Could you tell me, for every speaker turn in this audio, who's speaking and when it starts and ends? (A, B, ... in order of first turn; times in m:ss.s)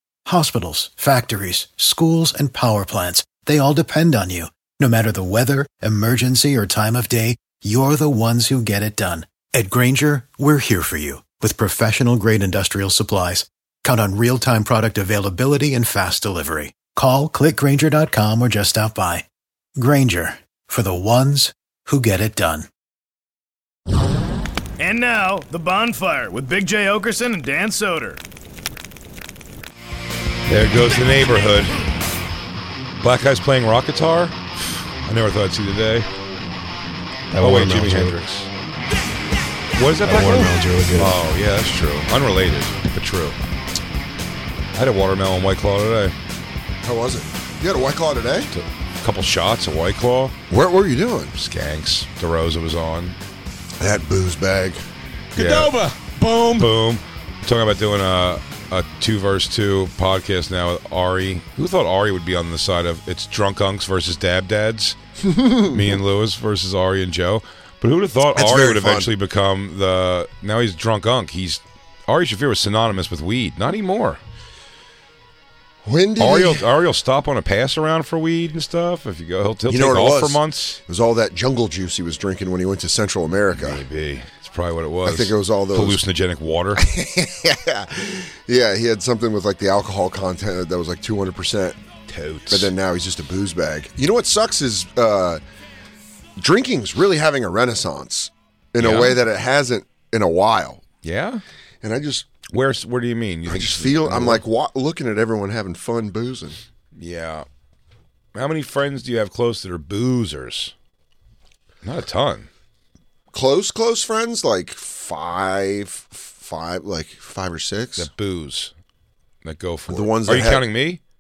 0:00.2-0:19.2 A
0:19.8-0:22.7 A
0:24.8-0:28.2 B
0:30.5-0:31.8 C
0:33.0-0:36.1 C
0:37.3-0:38.2 D
0:37.4-0:38.5 C
0:39.7-0:43.4 C
0:40.3-0:41.0 D
0:44.8-0:46.1 C
0:46.8-0:48.5 E
0:48.5-0:50.3 C
0:50.5-0:51.3 E
0:51.3-0:53.2 C
0:53.8-0:54.8 E
0:55.4-0:55.8 C
0:55.6-0:56.6 D
0:56.5-1:05.0 C
1:05.3-1:05.7 E
1:05.6-1:14.2 C
1:08.3-1:09.1 E
1:15.8-1:16.6 E
1:16.2-1:20.8 C
1:19.7-1:23.8 E
1:23.6-1:26.8 C
1:25.0-1:26.0 E
1:26.8-1:31.8 E
1:32.1-1:32.7 C
1:32.5-1:35.4 E
1:36.4-1:40.8 E
1:38.8-1:39.2 C
1:41.0-1:41.4 C
1:41.8-1:42.4 E
1:42.5-1:44.4 C
1:43.5-1:46.6 E
1:47.0-1:47.4 C
1:48.3-1:50.7 C
1:51.8-1:52.5 C
1:53.3-1:58.1 E
1:58.0-1:58.7 C
1:59.4-2:01.0 C
1:59.9-2:00.7 E